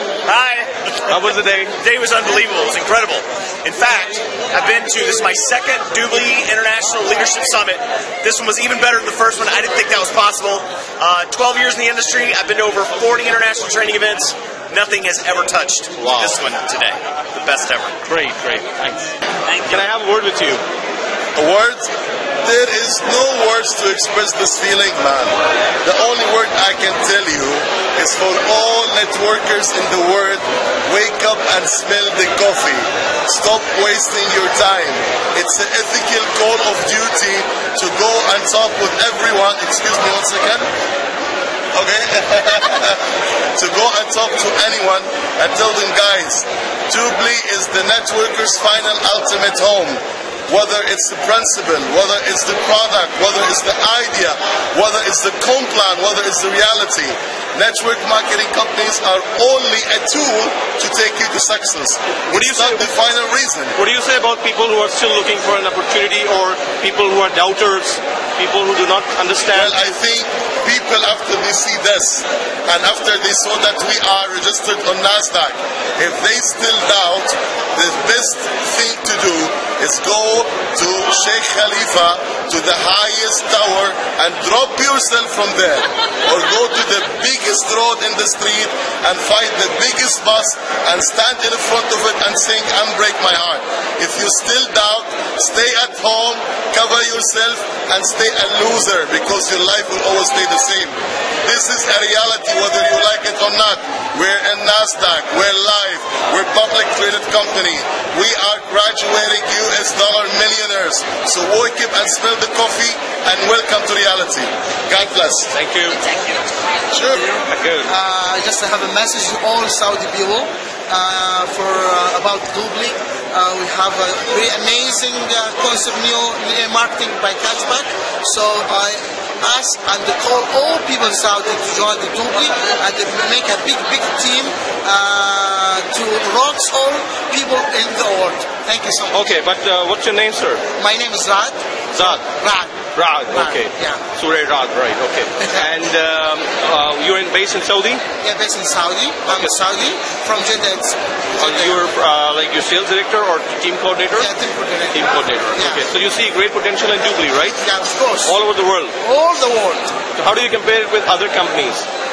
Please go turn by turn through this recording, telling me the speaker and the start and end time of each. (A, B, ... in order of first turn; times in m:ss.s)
0:00.3-0:00.7 A
0:01.1-0:01.8 B
0:01.8-0:17.9 A
0:16.0-0:16.4 B
0:18.1-0:19.1 B
0:19.5-0:19.8 A
0:19.7-0:20.6 B
0:21.4-0:21.9 C
0:22.4-0:40.7 C
0:41.7-0:43.0 C
0:43.6-1:03.8 C
1:02.3-1:02.9 B
1:03.7-1:10.0 B
1:09.5-1:55.5 C
1:55.5-1:56.4 B
1:56.9-1:57.3 C
1:57.5-1:57.9 B
1:57.9-2:19.4 D
2:19.1-2:20.6 B
2:20.8-2:21.6 D
2:21.9-2:22.2 B
2:22.4-2:24.0 D
2:22.9-2:28.0 B
2:28.2-2:31.8 D
2:29.3-2:29.5 B
2:31.4-2:34.3 B
2:34.2-2:35.8 D
2:34.9-2:37.6 B
2:37.6-2:38.4 D
2:38.2-2:39.0 B
2:39.0-2:40.0 D
2:40.2-2:41.9 B